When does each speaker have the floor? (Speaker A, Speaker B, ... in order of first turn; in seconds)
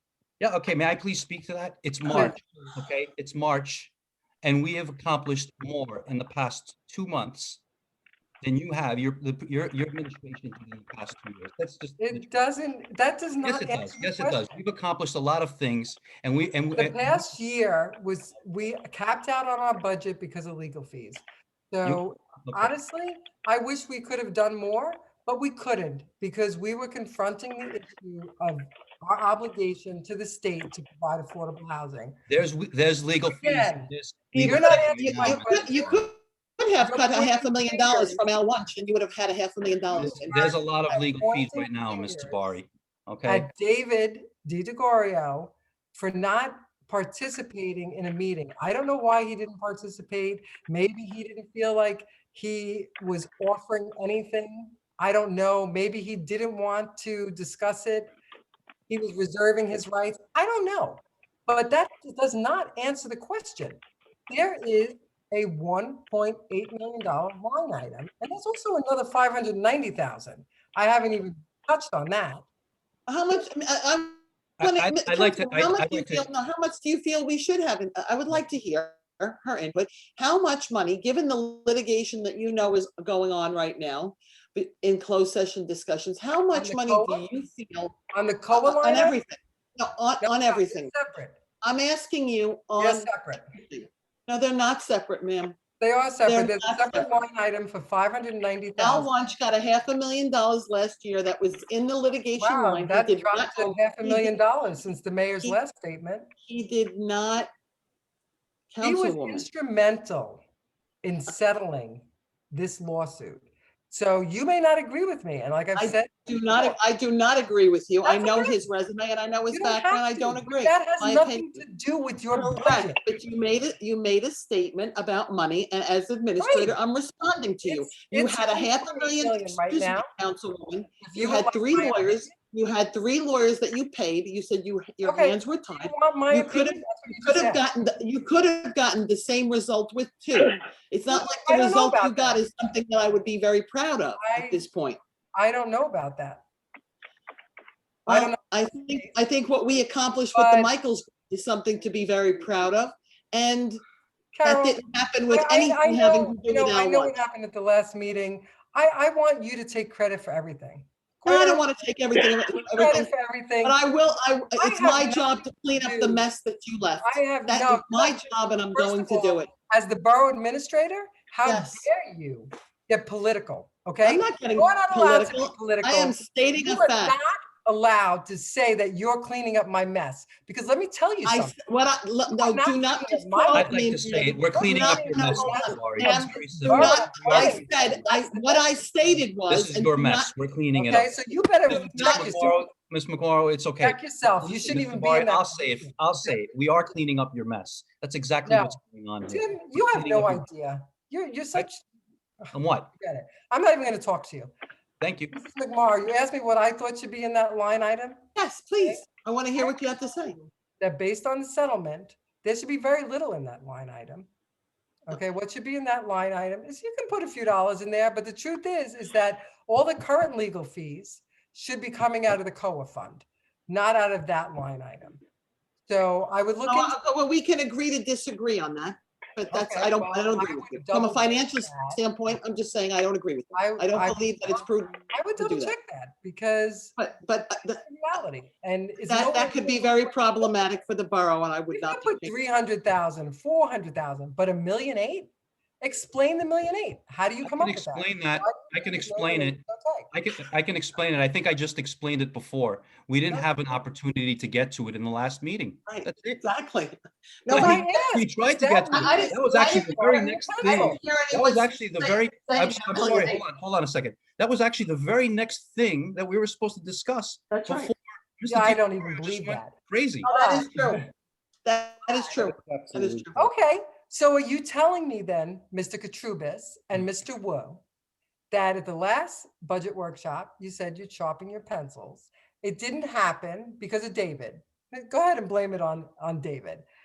Speaker A: 0.4-3.9, 4.4-7.6, 8.4-12.3, 13.4-17.3, 21.8-22.7, 32.3-36.0, 40.0-43.5, 74.6-76.2, 183.5-188.0, 189.5-191.1, 191.7-200.4, 202.5-202.9, 205.0-205.3, 247.4-256.4, 257.5-270.3, 272.4-273.3
Speaker B: 2.1-2.4, 12.0-14.6, 16.7-32.2, 33.4-33.9, 34.4-35.9, 36.8-38.3, 39.9-42.5, 43.2-58.1, 58.9-72.4, 86.5-87.2, 88.1-89.2, 90.2-91.4, 92.8-93.5, 95.8-99.1, 102.4-106.3, 108.8-110.4, 111.0-116.7, 118.0-118.6, 119.5-123.0, 126.4-126.7, 127.6-130.1, 131.0-132.3, 135.0-137.6, 141.1-142.4, 144.2-144.7, 145.3-146.4, 148.1-149.1, 150.3-150.7, 154.3-161.6, 162.8-163.8, 164.6-166.2, 167.0-181.5, 182.3-189.2, 190.8-192.7, 193.8-196.3, 198.4-201.8, 202.4-204.5, 205.3-208.2, 210.4-214.3, 215.1-225.2, 225.9-226.9, 229.5-232.0, 233.5-237.0, 237.8-240.5, 241.7-250.1, 257.5-261.0, 268.5-269.7, 270.2-271.0, 273.4-277.8, 278.5-286.8
Speaker C: 34.3-40.5, 73.1-88.0, 88.5-90.9, 91.6-95.6, 96.2-97.1, 98.8-104.4, 106.4-107.5, 108.7-109.5, 115.8-121.6, 122.3-145.0, 148.1-153.8, 154.4-157.2, 161.2-163.1, 163.6-169.5, 171.4-171.9, 174.0-177.2, 181.2-190.3, 191.9-192.3, 208.3-210.4, 226.7-235.7, 237.0-237.8, 239.1-242.3, 255.9-257.8, 258.9-263.4, 267.5-267.9, 270.2-271.0, 271.6-273.5